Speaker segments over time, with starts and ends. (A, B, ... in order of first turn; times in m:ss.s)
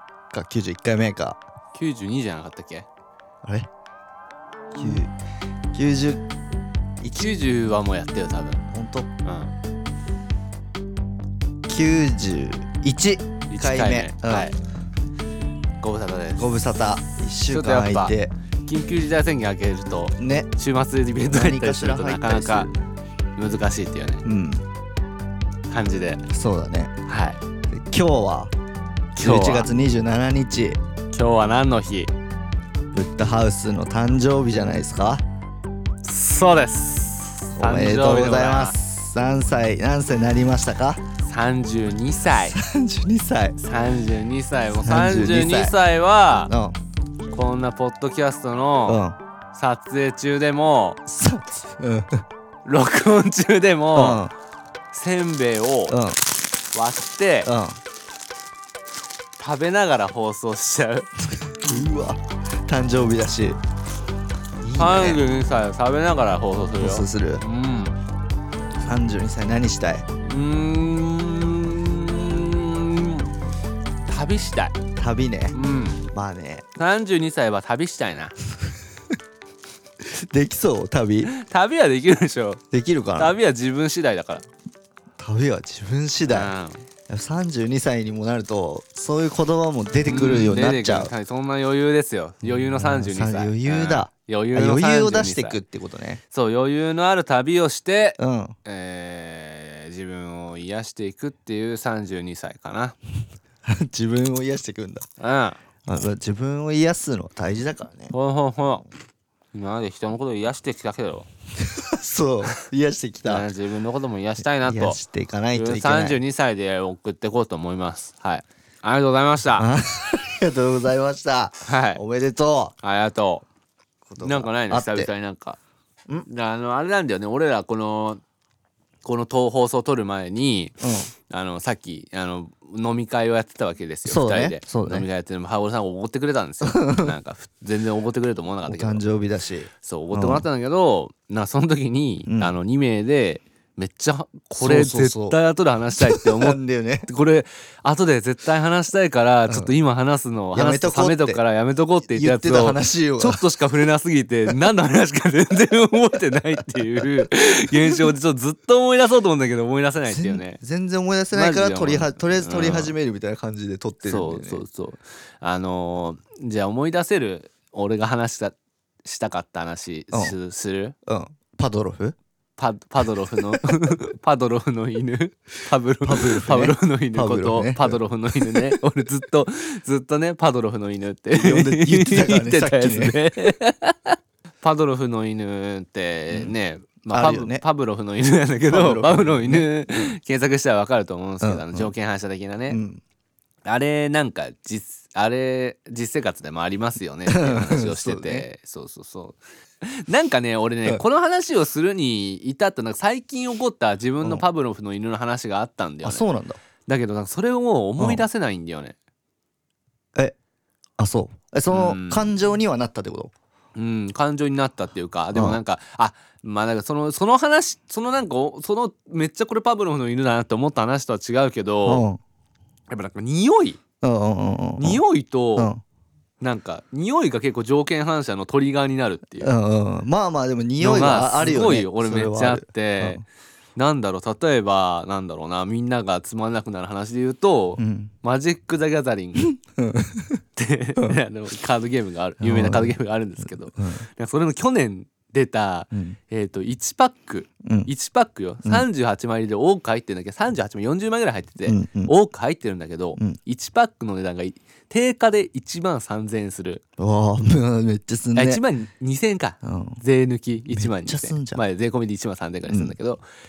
0:00.3-0:01.4 A
0:01.7-0:02.9 B
0:04.7-0:05.1 A
0:05.7-0:06.2 A
0:07.0-0:08.7 B
0:08.7-0:09.1 A
0:09.2-0:09.5 B
0:11.7-0:14.5 A
0:13.5-0:14.6 B
0:15.8-0:16.5 B
0:16.4-0:18.3 A
0:17.5-0:22.7 B
0:20.2-0:20.5 A
0:21.3-0:22.7 A
0:23.4-0:24.2 B
0:24.2-0:24.6 A
0:25.7-0:26.2 B
0:26.3-0:26.9 A
0:27.1-0:27.4 B
0:27.7-0:28.5 A
0:29.2-0:29.7 B
0:29.2-0:30.8 A
0:31.1-0:32.1 B
0:32.9-0:35.2 A
0:36.0-0:38.8 B
0:37.6-0:41.0 A
0:41.2-0:42.6 B
0:42.3-0:43.6 A
0:43.6-0:46.5 B
0:44.8-0:45.8 A
0:46.5-0:46.8 A
0:47.3-0:51.0 B
0:48.8-0:49.2 A
0:51.1-0:52.2 A
0:52.6-0:54.2 B
0:53.9-0:54.3 A
0:54.9-0:56.0 B
0:55.9-0:56.2 A
0:56.7-0:57.5 B
0:57.4-0:57.8 A
0:59.4-1:01.1 B
1:01.6-1:03.6 A
1:04.6-1:05.2 A
1:04.8-1:08.0 B
1:06.8-1:07.4 A
1:08.8-1:10.0 A
1:10.2-1:13.3 B
1:14.0-1:14.8 B
1:15.0-1:15.6 A
1:15.5-1:16.0 B
1:16.1-1:16.6 A
1:16.8-1:18.3 B
1:20.0-1:21.3 A
1:21.2-1:22.6 B
1:22.7-1:23.4 A
1:23.2-1:24.4 B
1:25.2-1:26.5 A
1:26.3-1:26.8 B
1:27.1-1:31.1 A
1:30.0-1:35.6 B
1:32.4-1:36.2 A
1:36.3-1:43.0 B
1:38.2-1:38.6 A
1:43.7-1:45.0 A
1:45.2-1:45.6 B
1:45.9-1:48.1 A
1:48.1-1:48.9 B
1:49.5-1:51.3 B
1:51.6-1:53.5 A
1:53.2-1:55.0 B
1:54.6-1:56.2 A
1:55.6-1:59.7 B
1:59.6-2:02.7 A
2:01.7-2:02.0 B
2:02.8-2:03.4 B
2:04.1-2:05.1 A
2:04.2-2:05.6 B
2:06.3-2:08.2 B
2:09.0-2:19.0 B
2:10.8-2:11.1 A
2:14.1-2:15.1 A
2:16.6-2:17.1 A
2:18.7-2:20.4 A
2:19.8-2:40.6 B
2:22.3-2:22.5 A
2:24.6-2:25.4 A
2:26.0-2:27.1 A
2:30.6-2:31.4 A
2:32.2-2:33.4 A
2:40.1-2:44.6 A
2:41.3-2:42.9 B
2:44.0-2:51.0 B
2:51.1-2:52.2 A
2:52.6-3:12.8 B
2:56.0-2:58.8 A
3:01.3-3:03.2 A
3:07.1-3:07.6 A
3:08.7-3:10.2 A
3:11.4-3:11.9 A
3:12.7-3:13.0 A
3:13.6-3:26.2 B
3:17.3-3:18.5 A
3:26.0-3:26.6 A
3:26.9-3:29.0 B
3:28.0-3:28.2 A
3:31.0-3:33.3 A
3:31.7-3:32.3 B
3:33.8-3:42.0 B
3:35.3-3:35.6 A
3:41.8-3:42.2 A
3:42.9-3:43.8 B
3:44.0-3:45.0 A
3:44.8-3:45.7 B
3:45.6-3:45.8 A
3:46.4-3:49.5 B
3:49.4-3:53.2 A
3:50.8-3:53.2 B
3:53.8-3:59.5 B
3:57.8-3:58.1 A
3:59.4-4:00.4 A
4:00.6-4:16.8 B
4:02.4-4:03.0 A
4:03.8-4:04.0 A
4:07.6-4:07.9 A
4:11.7-4:12.1 A
4:17.0-4:18.6 A
4:18.3-4:23.2 B
4:19.6-4:20.0 A
4:20.7-4:21.6 A
4:22.7-4:23.0 A